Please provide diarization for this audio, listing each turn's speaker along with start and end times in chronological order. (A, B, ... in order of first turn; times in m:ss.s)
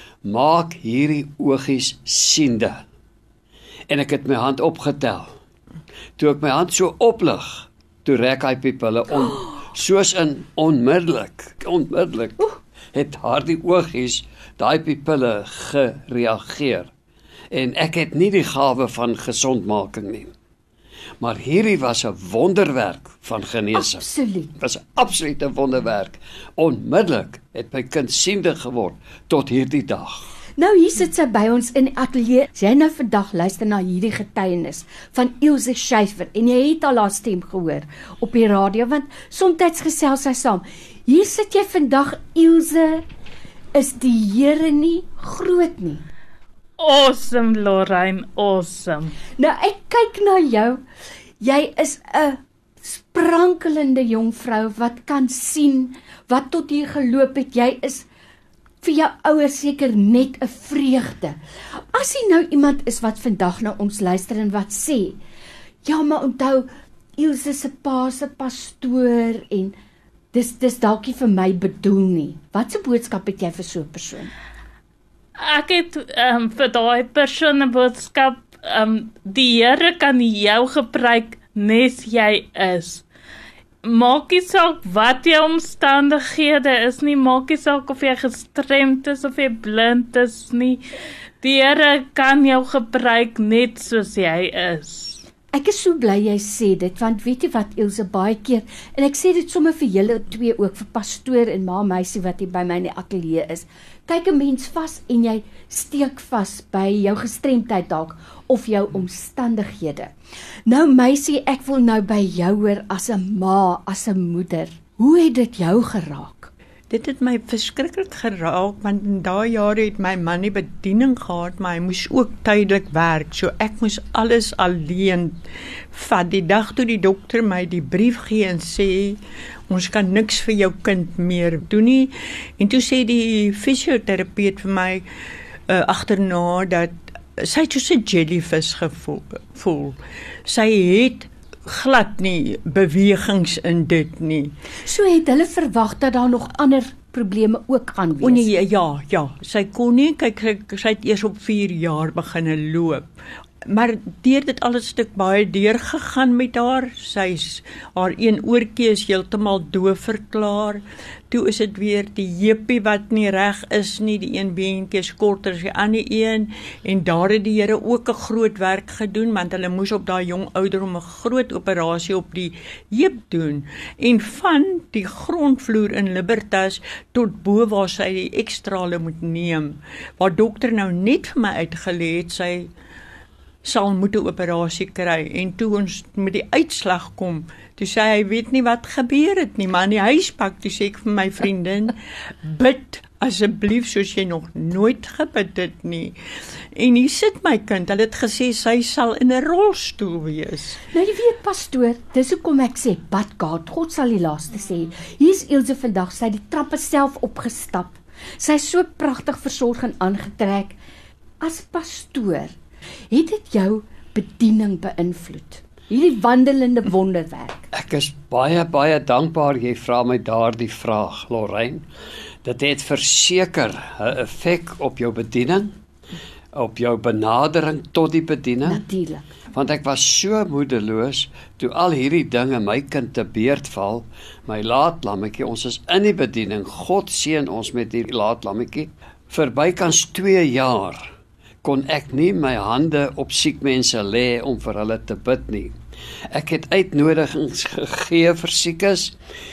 0:00.2-0:02.8 A
0:03.9-0:05.3 A
0:06.2-0:16.9 A
0:17.5-0:20.3 A
0:21.2-0:30.4 A
0:23.7-0:24.5 B
0:30.6-0:43.0 B
0:43.7-0:46.0 B
0:46.8-0:49.1 C
0:49.4-0:50.8 B
0:51.4-0:58.1 B
0:58.8-1:05.2 B
1:05.8-1:09.8 B
1:10.3-1:14.3 B
1:15.4-1:23.1 C
1:23.8-1:30.8 C
1:31.4-1:35.2 C
1:35.5-1:50.1 B
1:50.7-1:56.5 B
1:56.9-2:05.4 D
2:05.9-2:15.0 D
2:15.7-2:24.5 D
2:24.8-2:28.5 B
2:28.2-2:33.1 D
2:33.7-3:02.7 D
3:03.6-3:16.2 D
3:16.8-3:20.8 D
3:20.9-3:30.8 B
3:31.4-3:32.6 B
3:33.1-3:37.7 B
3:37.7-3:41.8 A
3:42.4-3:45.7 A
3:46.5-3:48.8 A
3:48.6-3:49.3 B
3:49.5-4:01.1 A
4:01.6-4:05.7 A
4:06.3-4:09.2 A